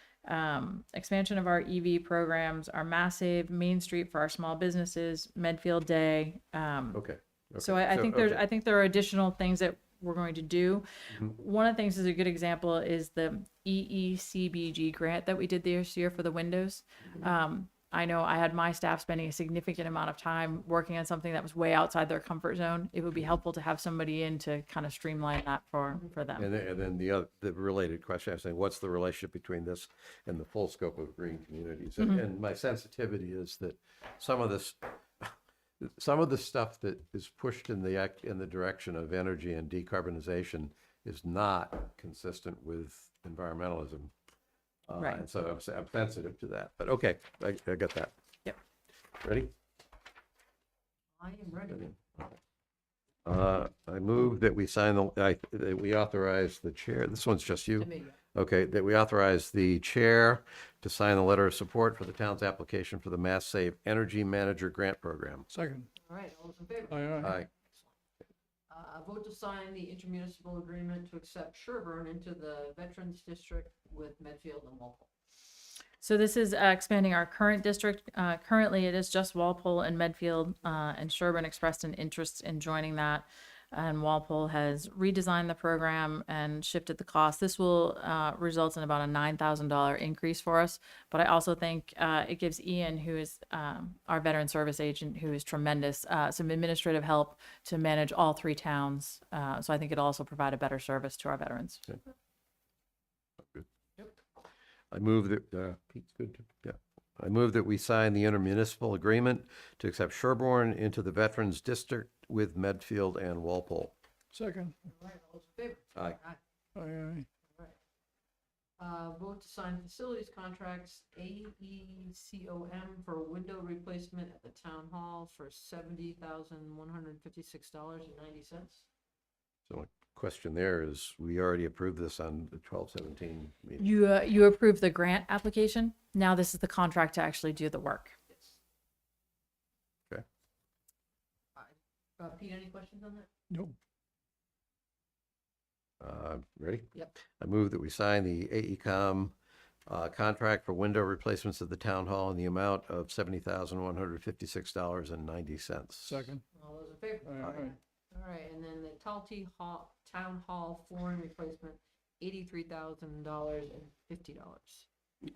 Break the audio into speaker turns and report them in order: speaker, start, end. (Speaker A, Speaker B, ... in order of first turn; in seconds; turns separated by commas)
Speaker A: 0.2-7.0, Speaker B: 6.9-8.4, Speaker A: 7.6-26.5, Speaker B: 26.4-44.1, Speaker B: 44.9-48.1, Speaker A: 45.0-45.2, Speaker B: 49.2-49.5, Speaker C: 51.2-51.9, Speaker B: 51.7-52.3, Speaker B: 53.2-65.5, Speaker C: 57.8-58.1, Speaker D: 65.5-65.9, Speaker C: 66.0-67.9, Speaker D: 66.9-67.3, Speaker B: 67.2-67.5, Speaker C: 68.7-75.1, Speaker A: 76.0-101.9, Speaker B: 103.4-103.7, Speaker B: 104.9-113.9, Speaker D: 114.3-114.7, Speaker C: 114.8-116.4, Speaker D: 116.7-117.3, Speaker C: 118.8-128.8, Speaker B: 129.7-133.9, Speaker A: 133.8-138.1, Speaker C: 141.6-143.3, Speaker D: 143.5-143.8, Speaker B: 146.0-149.3, Speaker B: 149.9-156.3, Speaker D: 156.1-156.4, Speaker C: 156.5-164.9, Speaker D: 157.2-157.7